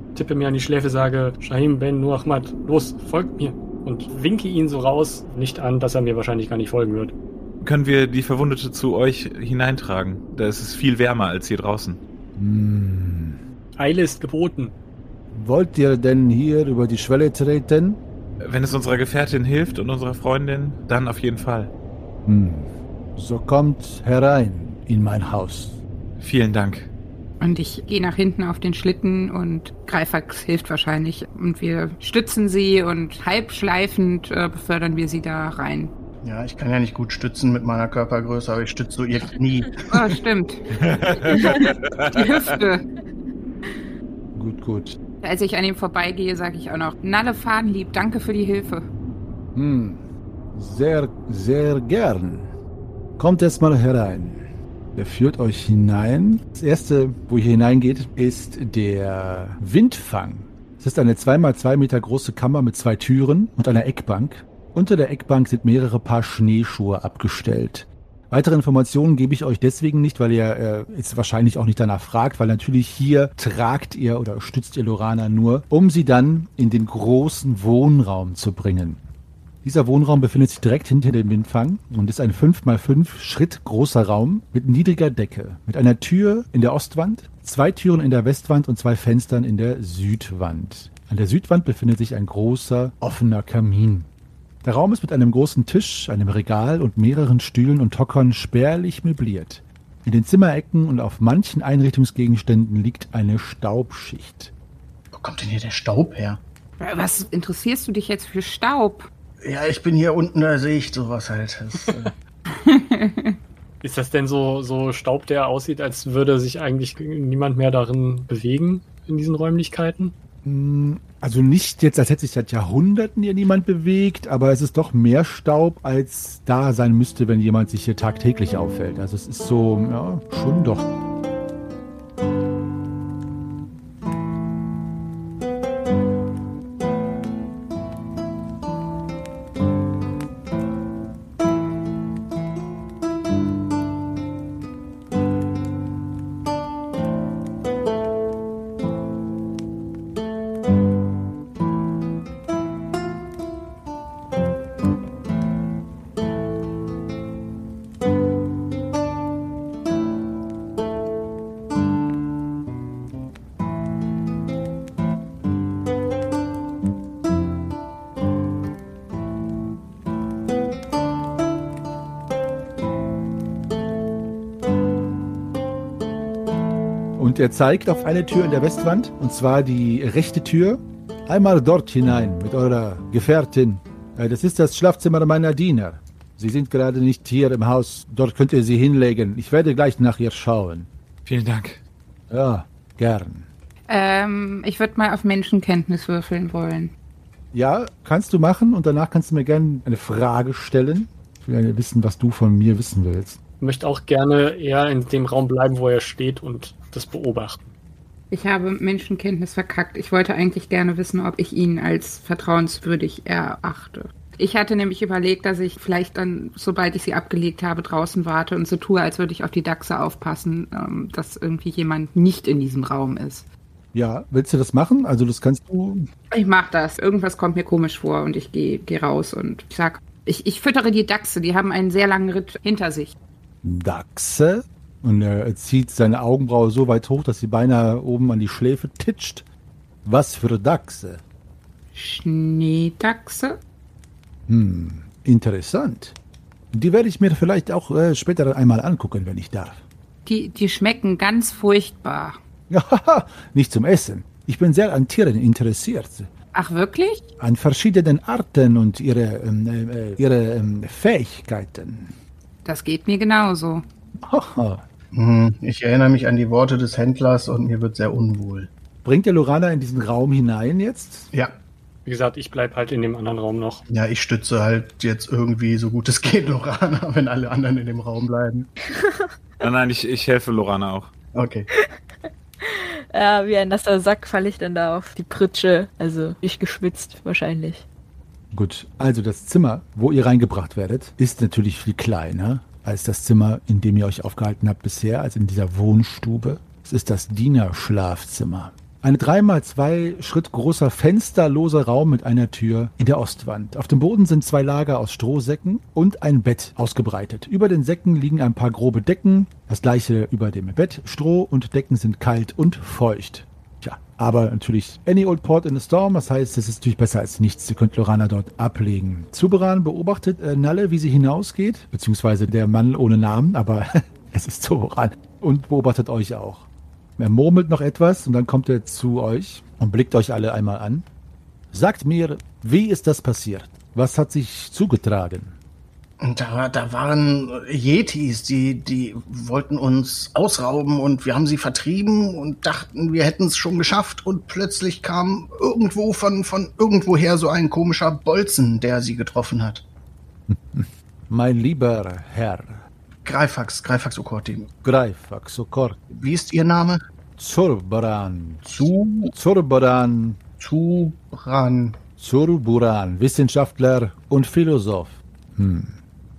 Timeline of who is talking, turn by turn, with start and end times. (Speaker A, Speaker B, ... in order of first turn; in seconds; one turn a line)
Speaker A: 0.1-7.1
Speaker B: 7.6-12.0
Speaker C: 12.4-13.4
Speaker A: 13.8-14.8
Speaker C: 15.3-18.0
Speaker B: 18.4-21.7
Speaker C: 22.2-25.8
Speaker B: 26.2-26.9
Speaker D: 27.4-35.9
Speaker E: 36.2-39.9
Speaker D: 39.9-40.6
Speaker C: 40.8-41.4
Speaker B: 40.9-41.5
Speaker D: 41.3-42.8
Speaker C: 44.4-45.0
Speaker D: 45.2-48.9
Speaker C: 49.5-52.5
Speaker C: 53.2-79.0
Speaker C: 79.6-94.1
Speaker C: 94.6-104.5
Speaker E: 105.1-106.4
Speaker D: 106.8-109.1
Speaker E: 109.4-112.1
Speaker D: 112.5-113.4
Speaker A: 113.8-120.2
Speaker C: 120.4-130.9
Speaker C: 177.2-190.9
Speaker B: 191.2-191.8
Speaker C: 192.3-193.5
Speaker D: 193.9-196.9
Speaker C: 197.5-203.4
Speaker A: 203.6-207.7
Speaker D: 208.3-223.5
Speaker C: 223.9-226.1
Speaker D: 226.3-233.1
Speaker C: 233.6-239.5
Speaker C: 240.1-241.2
Speaker D: 241.9-243.6
Speaker C: 244.5-246.2
Speaker C: 246.7-249.8
Speaker D: 250.3-252.4
Speaker C: 252.7-256.3
Speaker D: 256.6-257.2
Speaker C: 257.4-262.2
Speaker D: 262.6-263.8
Speaker C: 264.2-264.8
Speaker E: 265.1-268.7
Speaker C: 269.0-271.3
Speaker A: 272.1-273.8
Speaker E: 273.9-278.7
Speaker F: 279.0-279.3
Speaker B: 279.6-281.1
Speaker E: 281.4-281.7
Speaker F: 281.8-287.9
Speaker C: 288.5-331.1
Speaker C: 331.7-335.6
Speaker E: 336.2-349.9
Speaker C: 350.5-352.8
Speaker E: 353.2-354.7
Speaker C: 354.8-356.3
Speaker E: 356.2-357.0
Speaker C: 357.4-360.4
Speaker E: 358.7-359.3
Speaker E: 360.6-362.0
Speaker C: 362.2-366.0